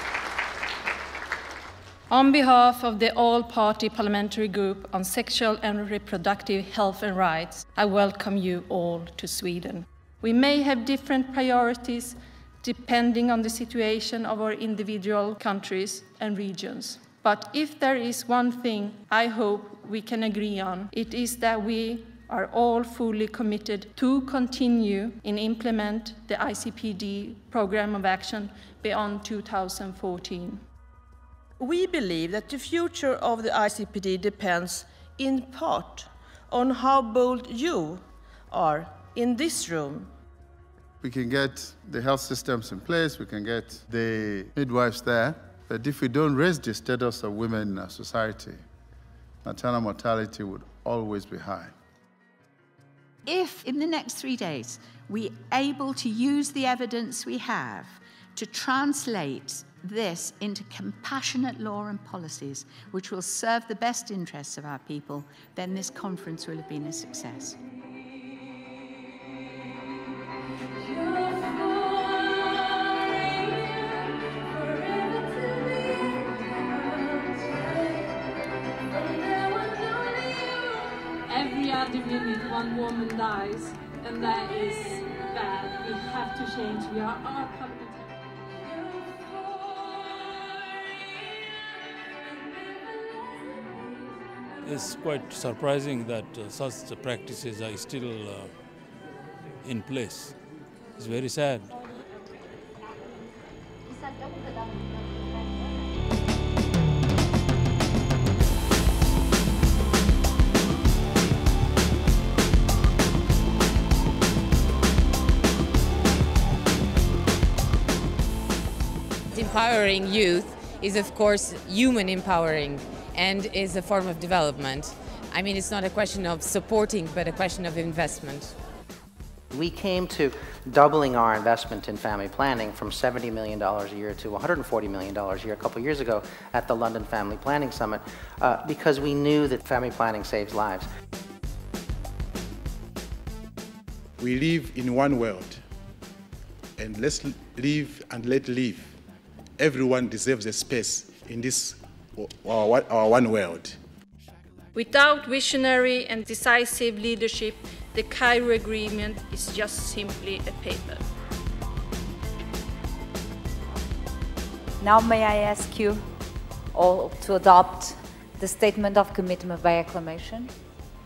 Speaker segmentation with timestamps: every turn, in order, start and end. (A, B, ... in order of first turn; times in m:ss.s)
0:02.1-0:30.6 A
0:31.6-0:40.1 B
0:41.0-0:48.6 C
0:49.4-0:51.7 C
0:53.3-1:07.6 D
1:11.3-1:12.3 E
1:14.6-1:15.7 E
1:19.2-1:20.4 E
1:21.3-1:28.1 E
1:34.6-1:38.5 F
1:39.6-1:40.4 F
1:41.0-1:41.7 F
1:59.3-2:08.6 G
2:09.5-2:20.9 H
2:24.2-2:25.6 I
2:26.8-2:29.0 I
2:29.6-2:33.8 I
2:34.8-2:41.0 A
2:44.8-2:46.1 J
2:46.7-2:50.5 J